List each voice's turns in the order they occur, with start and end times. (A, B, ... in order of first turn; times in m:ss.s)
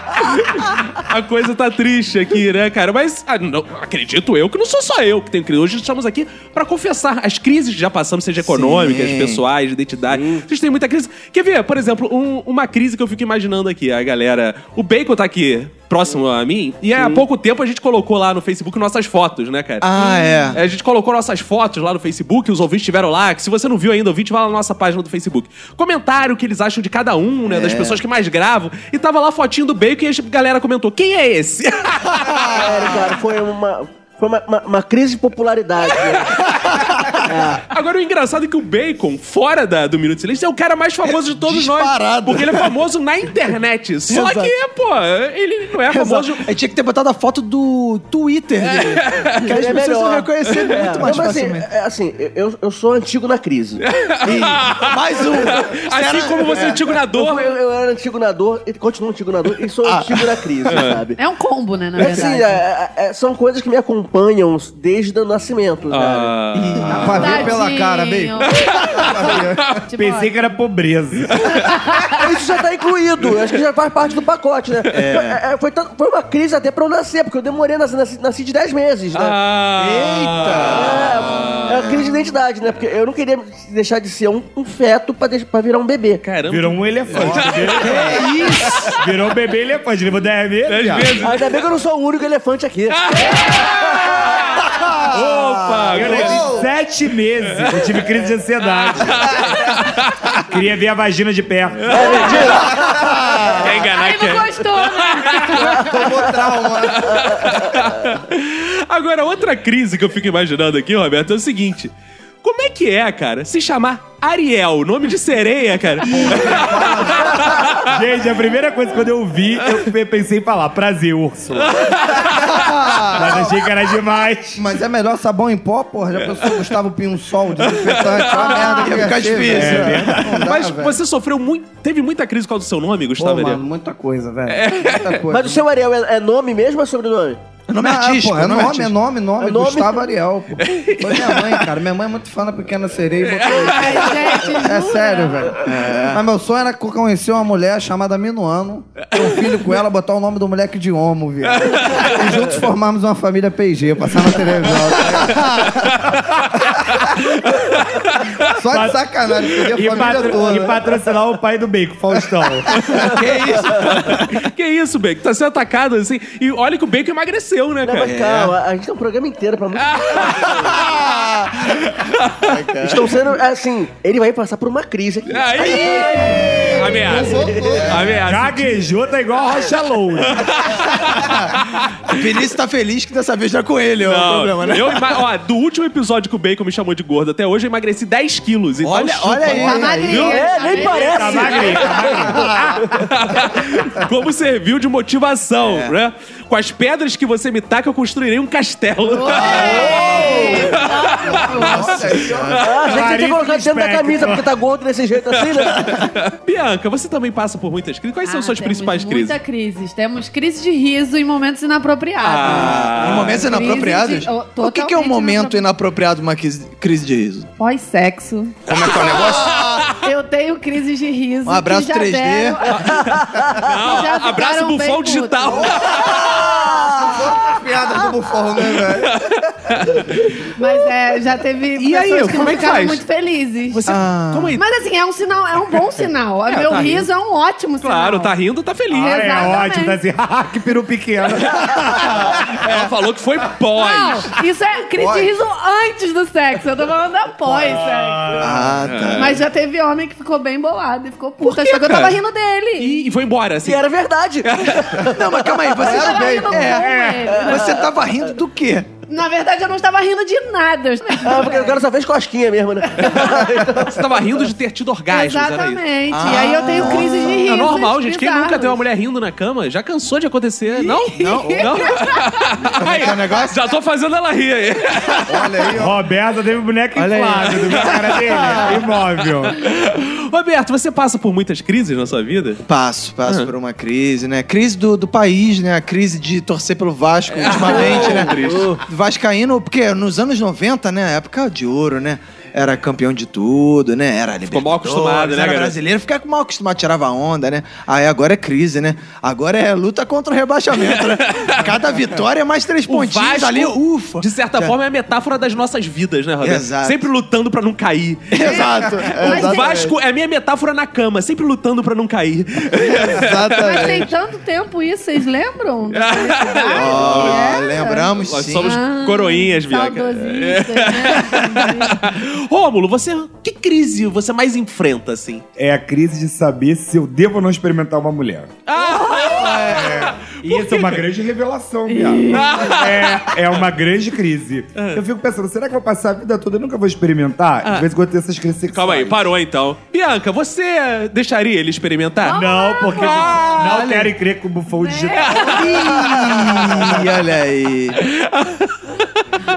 0:00.2-0:33.0 A
0:08.4-0:09.4 B
0:10.1-0:10.4 C
0:17.0-0:17.2 C
0:19.8-0:20.6 B
0:27.4-0:28.0 B
0:32.2-0:32.6 B
0:32.5-0:36.5 C
0:36.0-0:36.6 A
0:36.5-0:37.2 B
0:37.2-0:37.6 C
0:37.7-0:46.5 A
0:41.0-0:42.8 B
0:44.1-0:44.5 B
0:45.8-0:51.7 B
0:48.6-0:49.6 A
0:49.5-0:53.8 C
0:50.5-0:50.8 A
0:53.9-0:57.6 A
0:54.2-0:56.9 B
0:57.1-1:01.2 C
0:59.8-1:00.1 B
1:00.7-1:01.0 A
1:01.2-1:02.4 D
1:02.0-1:06.4 C
1:05.9-1:07.4 A
1:06.5-1:09.8 E
1:06.6-1:07.0 B
1:06.9-1:10.3 D
1:06.9-1:07.5 F
1:08.6-1:09.3 A
1:10.0-1:11.9 F
1:11.4-1:12.1 D
1:12.1-1:19.4 C
1:14.9-1:15.3 B
1:14.9-1:15.2 A
1:19.1-1:22.1 A
1:19.8-1:21.7 B
1:20.7-1:26.2 C
1:26.2-1:29.0 A
1:26.4-1:28.2 F
1:27.1-1:28.9 B
1:28.9-1:31.2 F
1:30.7-1:31.6 A
1:31.2-1:34.3 C
1:32.9-1:36.5 A
1:35.9-1:39.8 F
1:35.9-1:36.7 E
1:38.9-1:40.4 A
1:40.4-1:42.5 F
1:41.8-1:58.0 A
1:41.9-1:43.0 C
1:42.8-1:43.7 E
1:43.0-1:43.5 B
1:43.8-1:46.0 D
1:45.6-1:47.4 E
1:56.0-1:57.7 E
1:57.8-2:02.1 F
2:01.7-2:02.4 A
2:02.3-2:03.4 B
2:02.6-2:03.3 E
2:03.1-2:04.6 F
2:04.6-2:11.0 E
2:07.6-2:08.8 A
2:08.3-2:09.0 D
2:08.5-2:10.2 B
2:09.4-2:10.4 F
2:10.4-2:13.6 A
2:13.2-2:15.6 E
2:14.5-2:15.2 A
2:15.3-2:17.4 C
2:17.7-2:18.9 B
2:17.8-2:35.8 E
2:19.4-2:20.0 C
2:20.6-2:21.7 A
2:23.2-2:24.4 A
2:23.5-2:25.6 D
2:25.6-2:26.2 B
2:29.2-2:29.6 A
2:31.5-2:32.4 A
2:34.7-2:35.2 A
2:35.2-2:35.7 B
2:35.8-2:38.5 A
2:36.6-2:37.0 E
2:38.5-2:40.8 E
2:38.7-2:39.0 F
2:39.7-2:42.9 F
2:42.7-2:48.1 A
2:42.9-2:44.4 B
2:47.8-2:50.8 C
2:48.0-2:48.5 B
2:49.7-2:51.0 A
2:50.6-2:51.8 B
2:51.6-2:53.2 A
2:52.4-2:53.3 B
2:52.8-2:57.9 C
2:55.3-2:58.8 A
2:56.2-2:58.1 E
2:58.2-3:00.8 F
3:00.3-3:02.4 A
3:01.1-3:01.5 B
3:02.0-3:05.2 B
3:04.0-3:10.5 A
3:08.8-3:10.4 B
3:09.5-3:11.9 D
3:10.0-3:12.3 C
3:10.8-3:13.0 F
3:11.6-3:23.0 A
3:15.6-3:15.9 B
3:19.1-3:22.0 D
3:19.2-3:20.3 B
3:19.4-3:22.6 E
3:19.5-3:20.5 C
3:21.3-3:22.6 B
3:22.6-3:26.1 C
3:22.8-3:24.5 F
3:25.7-3:29.4 A
3:28.2-3:35.6 D
3:32.2-3:33.4 A
3:32.4-3:37.5 B
3:37.6-3:38.6 D
3:38.7-3:39.8 B
3:38.7-3:39.7 E
3:39.1-3:39.9 A
3:39.9-3:45.7 D
3:41.4-3:42.6 B
3:42.7-3:46.6 A
3:43.0-3:43.5 C
3:45.5-3:49.2 E
3:45.8-3:47.0 B
3:46.3-3:46.9 C
3:48.6-3:50.6 A
3:50.5-3:53.8 D
3:51.8-3:53.0 A
3:53.7-3:54.6 A
3:53.8-3:54.6 B
3:54.6-3:58.3 D
3:56.5-3:57.0 A
3:57.8-3:59.3 A
3:58.9-4:02.7 F
3:59.0-4:00.0 D
4:01.6-4:04.3 A
4:03.8-4:13.0 D
4:05.0-4:05.3 B
4:07.5-4:08.7 F
4:08.4-4:09.4 B
4:08.8-4:09.4 A
4:11.4-4:12.1 A
4:12.8-4:13.9 A
4:13.6-4:16.0 C
4:14.4-4:15.1 A
4:15.0-4:18.9 B
4:15.8-4:17.7 D
4:15.9-4:16.8 E
4:16.8-4:17.1 F
4:17.3-4:18.1 C
4:19.1-4:21.8 D
4:21.2-4:24.2 C
4:22.9-4:23.4 D
4:23.0-4:25.8 A
4:25.1-4:28.8 D
4:26.1-4:27.6 B
4:26.6-4:35.6 A
4:30.7-4:32.5 D
4:31.1-4:31.9 B
4:32.6-4:33.6 B
4:35.2-4:35.9 B
4:35.3-4:35.9 E
4:35.7-4:39.6 F
4:36.9-4:38.8 B
4:37.6-4:42.6 A
4:42.6-5:04.7 B
4:43.2-4:43.5 A
4:47.3-4:48.8 A
4:47.8-4:48.8 C
4:54.5-4:55.8 A
5:00.8-5:01.7 A
5:02.9-5:13.9 A
5:06.4-5:07.1 B
5:08.3-5:09.9 B
5:09.2-5:09.8 D
5:12.7-5:14.1 B
5:13.5-5:22.1 D
5:15.9-5:17.6 A
5:16.7-5:18.8 B
5:18.2-5:25.4 A
5:25.6-5:28.5 F
5:28.7-5:31.0 A
5:28.7-5:29.8 D
5:29.2-5:30.1 B
5:29.9-5:39.2 F
5:31.9-5:32.7 D
5:32.3-5:33.4 A
5:34.8-5:35.0 A
5:38.7-5:42.4 A
5:42.2-5:43.7 D
5:42.3-5:47.1 F
5:43.0-5:44.1 A
5:44.8-5:45.6 D
5:45.3-5:46.0 A
5:45.6-5:48.0 B
5:46.6-5:46.9 A
5:48.0-5:49.2 A